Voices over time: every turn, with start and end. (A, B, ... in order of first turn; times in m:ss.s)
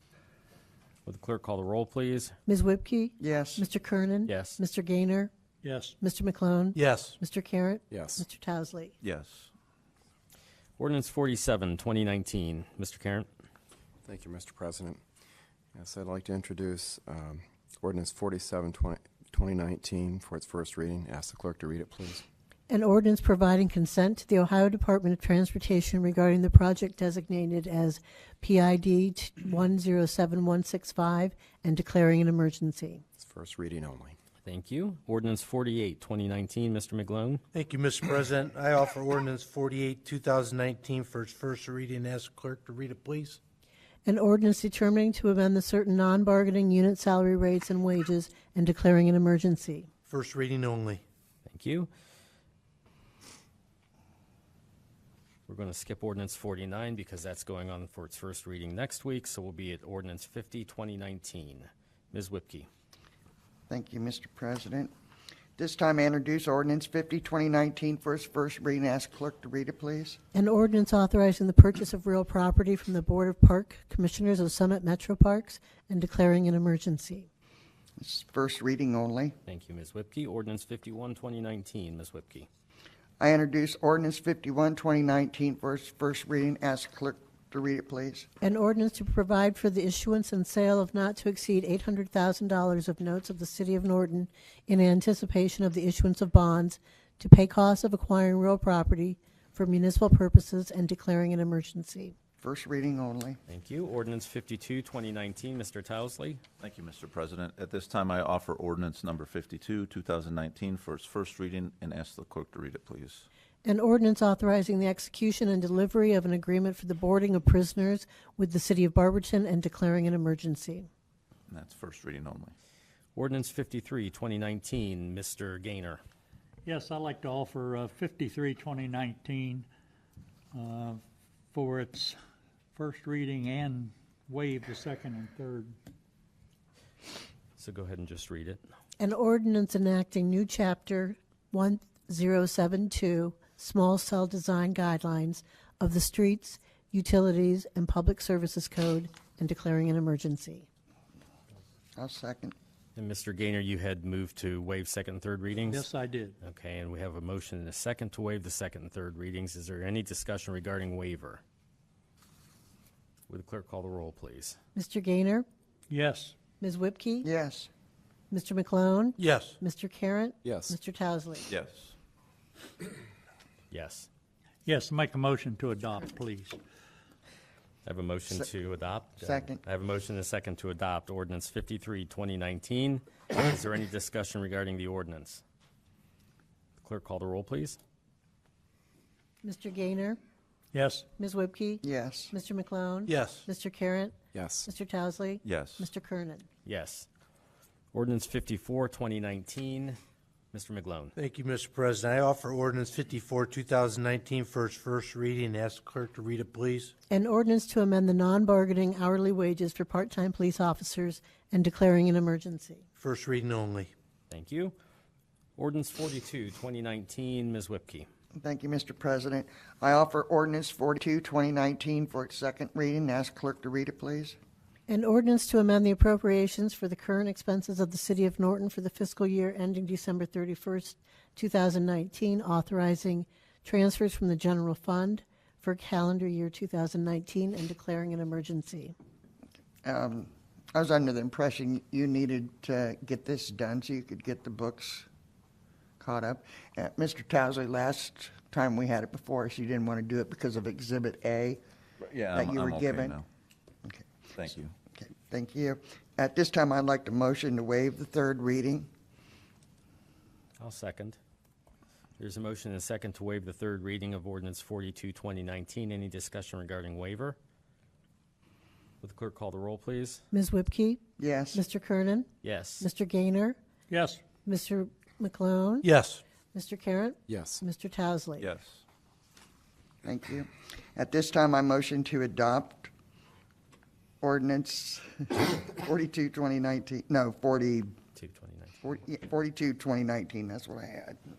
0:01.1-0:02.4 A
0:02.5-0:05.3 B
0:03.2-0:03.7 C
0:04.3-0:04.6 A
0:05.6-0:06.0 D
0:06.0-0:08.9 B
0:06.8-0:07.2 E
0:07.9-0:08.2 F
0:09.0-0:09.5 G
0:10.8-0:13.3 A
0:14.0-0:15.0 F
0:15.7-0:22.2 F
0:22.7-0:33.0 B
0:33.2-0:34.2 F
0:34.4-0:37.4 A
0:37.5-0:43.4 E
0:44.0-0:49.9 B
0:50.1-0:51.0 E
0:51.5-0:51.9 A
0:55.5-1:02.7 A
1:03.7-1:04.9 C
1:05.6-1:10.2 C
1:10.3-1:17.3 B
1:18.0-1:19.4 C
1:19.5-1:22.5 A
1:23.2-1:28.3 C
1:28.4-1:42.2 B
1:42.4-1:43.4 C
1:43.5-1:46.4 A
1:46.6-1:53.3 G
1:53.6-2:00.9 B
2:01.5-2:02.5 G
2:03.2-2:06.0 A
2:06.6-2:09.7 D
2:10.5-2:11.0 D
2:11.5-2:12.2 D
2:12.8-2:15.7 D
2:17.6-2:18.6 A
2:19.0-2:30.7 B
2:32.0-2:32.5 C
2:33.0-2:35.9 A
2:35.7-2:36.4 D
2:36.4-2:41.4 A
2:43.3-2:44.6 A
2:44.8-2:45.4 B
2:45.9-2:46.3 D
2:46.6-2:47.3 B
2:47.2-2:47.7 C
2:48.3-2:51.5 B
2:49.2-2:49.6 E
2:50.4-2:50.8 F
2:51.5-2:51.9 G
2:53.7-2:54.1 A
2:54.7-2:56.6 D
2:57.8-3:05.4 A
2:59.2-2:59.6 C
3:06.8-3:07.8 A
3:09.4-3:10.2 B
3:10.7-3:11.0 D
3:11.2-3:16.5 B
3:11.8-3:12.3 C
3:13.1-3:13.5 E
3:14.3-3:14.7 F
3:15.4-3:15.9 G
3:16.6-3:17.1 A
3:17.9-3:20.0 A
3:20.5-3:21.1 A
3:21.2-3:26.9 E
3:27.1-3:32.8 B
3:33.0-3:33.9 E
3:34.3-3:34.8 A
3:35.6-3:38.1 A
3:38.4-3:44.4 C
3:44.9-3:58.9 B
3:59.8-4:05.1 C
4:06.0-4:11.6 C
4:12.0-4:13.2 G
4:12.3-4:13.2 C
4:14.4-4:14.7 G
4:14.9-4:18.9 C
4:20.6-4:21.2 A
4:22.2-4:27.4 A
4:29.0-4:30.2 A
4:30.3-4:32.3 B
4:31.2-4:31.6 C
4:32.4-4:32.9 A
4:32.8-4:33.6 B
4:33.9-4:34.2 D
4:34.4-4:35.9 B
4:35.8-4:36.2 E
4:36.5-4:38.5 B
4:37.3-4:37.6 F
4:38.4-4:38.8 G
4:40.0-4:42.9 C
4:44.2-4:48.0 C
4:48.2-4:48.8 A
4:48.8-4:51.2 C